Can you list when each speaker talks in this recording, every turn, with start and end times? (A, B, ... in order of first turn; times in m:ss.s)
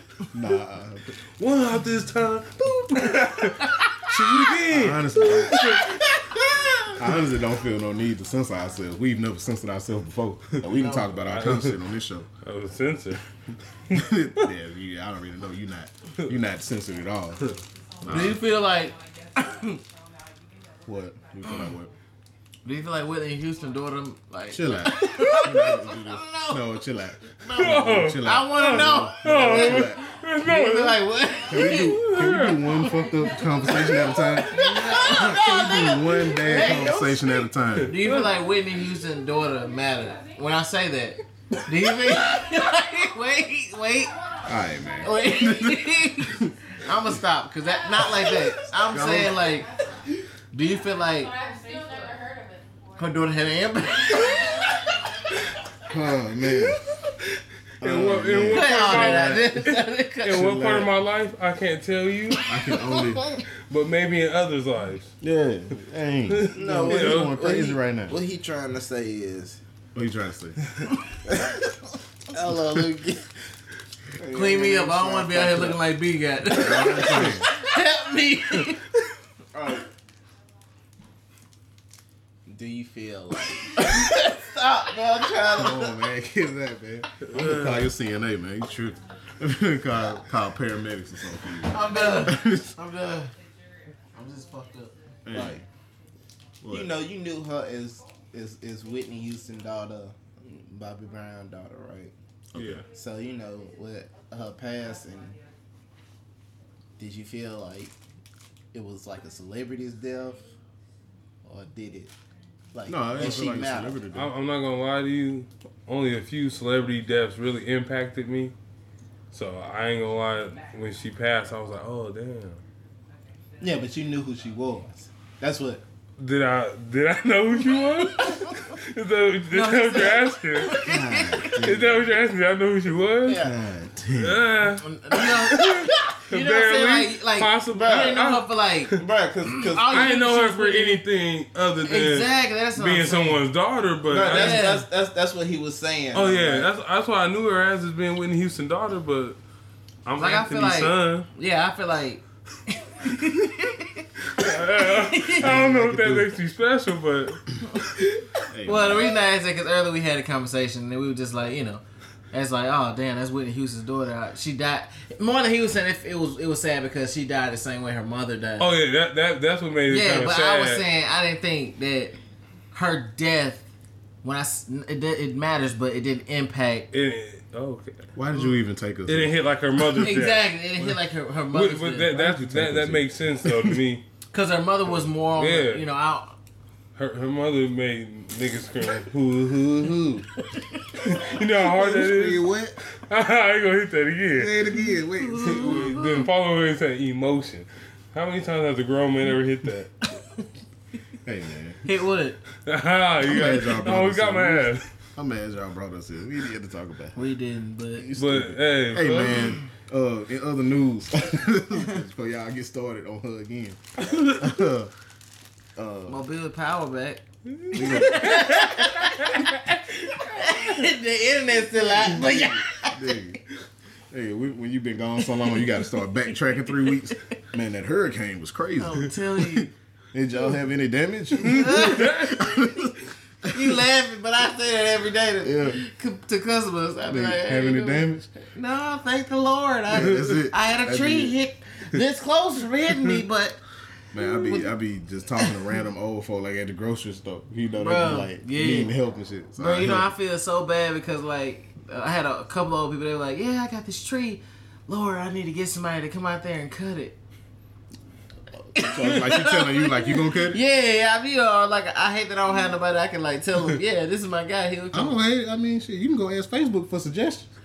0:00.3-0:01.2 A
0:01.4-0:06.0 B
0:04.6-0:05.8 A
0:07.0-0:12.3 A
0:10.7-0:11.1 C
0:11.2-0:11.8 B
0:12.4-0:13.2 B
0:13.9-0:14.5 B
0:13.9-0:18.4 A
0:18.0-0:19.8 C
0:20.8-0:21.9 A
0:22.6-0:26.8 C
0:24.5-0:30.0 A
0:27.4-0:44.3 C
0:27.5-0:31.1 B
0:31.5-0:38.0 A
0:31.6-0:32.9 B
0:34.9-0:35.4 B
0:37.8-0:38.4 B
0:42.4-0:43.1 D
0:44.0-0:45.2 D
0:44.4-0:46.5 A
0:45.0-0:49.7 C
0:48.0-0:49.9 D
0:48.8-0:49.5 A
0:50.5-0:51.4 C
0:50.8-0:55.1 D
0:53.0-0:55.1 C
0:55.9-0:56.8 A
0:56.4-0:56.9 C
0:57.8-0:59.5 A
0:57.8-1:02.4 B
0:58.5-1:00.6 C
1:00.3-1:00.9 A
1:02.4-1:03.3 A
1:02.7-1:03.4 C
1:03.7-1:05.1 B
1:05.2-1:08.2 A
1:06.3-1:07.4 B
1:06.5-1:09.6 E
1:09.9-1:10.6 A
1:10.8-1:11.6 E
1:12.3-1:13.3 E
1:14.1-1:15.8 E
1:14.3-1:18.8 C
1:16.5-1:17.5 A
1:16.9-1:17.3 E
1:19.5-1:19.9 E
1:22.5-1:26.0 E
1:25.5-1:32.8 A
1:27.2-1:27.9 B
1:31.6-1:33.3 C
1:34.1-1:34.9 C
1:35.2-1:35.6 A
1:35.3-1:35.6 E
1:36.6-1:37.0 A
1:36.7-1:42.1 E
1:42.5-1:42.8 A
1:42.6-1:42.8 B
1:42.9-1:45.4 E
1:47.0-1:48.0 E
1:48.7-1:50.4 E
1:51.4-1:52.1 E
1:52.7-1:54.0 E
1:52.9-1:54.3 A
1:54.1-1:58.6 B
1:59.3-2:02.6 B
2:03.6-2:05.8 E
2:06.2-2:10.8 B
2:09.5-2:11.7 C
2:10.8-2:12.0 A
2:11.4-2:13.5 B
2:13.2-2:13.6 E
2:13.4-2:14.6 A
2:14.2-2:19.0 B
2:14.8-2:21.0 C
2:17.8-2:18.2 E
2:18.9-2:20.2 E
2:19.9-2:24.8 B
2:21.8-2:23.4 C
2:24.1-2:26.7 E
2:24.2-2:24.8 C
2:26.1-2:29.4 B
2:30.1-2:31.3 B
2:30.2-2:36.1 C
2:34.3-2:37.5 B
2:35.4-2:36.3 A
2:37.7-2:38.1 C
2:38.5-2:39.2 A
2:38.6-2:48.8 C
2:48.6-2:50.9 B
2:49.9-2:52.2 C
2:52.7-2:53.7 C
2:54.2-2:56.9 C
2:56.9-2:58.1 B
2:58.2-2:59.4 A
2:59.1-3:00.6 B
3:00.0-3:02.3 C
3:01.5-3:04.0 B
3:02.2-3:03.8 A
3:04.3-3:06.4 C
3:05.2-3:05.9 B
3:07.0-3:10.3 B
3:11.0-3:14.6 B
3:11.3-3:12.8 A
3:14.3-3:15.9 A
3:14.8-3:16.3 C
3:15.4-3:20.0 B
3:21.2-3:21.8 A
3:21.8-3:22.4 C
3:22.7-3:24.9 B
3:23.2-3:27.2 A
3:27.2-3:28.1 C
3:28.0-3:34.9 A
3:28.2-3:29.5 B
3:35.8-3:36.2 A
3:36.1-3:43.0 C
3:37.6-3:39.4 B
3:37.7-3:38.5 A
3:41.7-3:43.4 A
3:44.1-3:53.8 A
3:48.8-3:49.7 C
3:51.4-3:52.7 C
3:51.7-3:52.3 B
3:53.5-4:03.6 C
3:55.4-3:55.8 A
3:57.1-3:58.3 A
3:59.9-4:01.4 A
4:00.0-4:00.3 B
4:04.1-4:10.1 A
4:04.2-4:04.7 C
4:07.8-4:08.9 C
4:09.6-4:17.2 C
4:18.7-4:20.6 A
4:18.7-4:25.2 C
4:24.9-4:27.5 A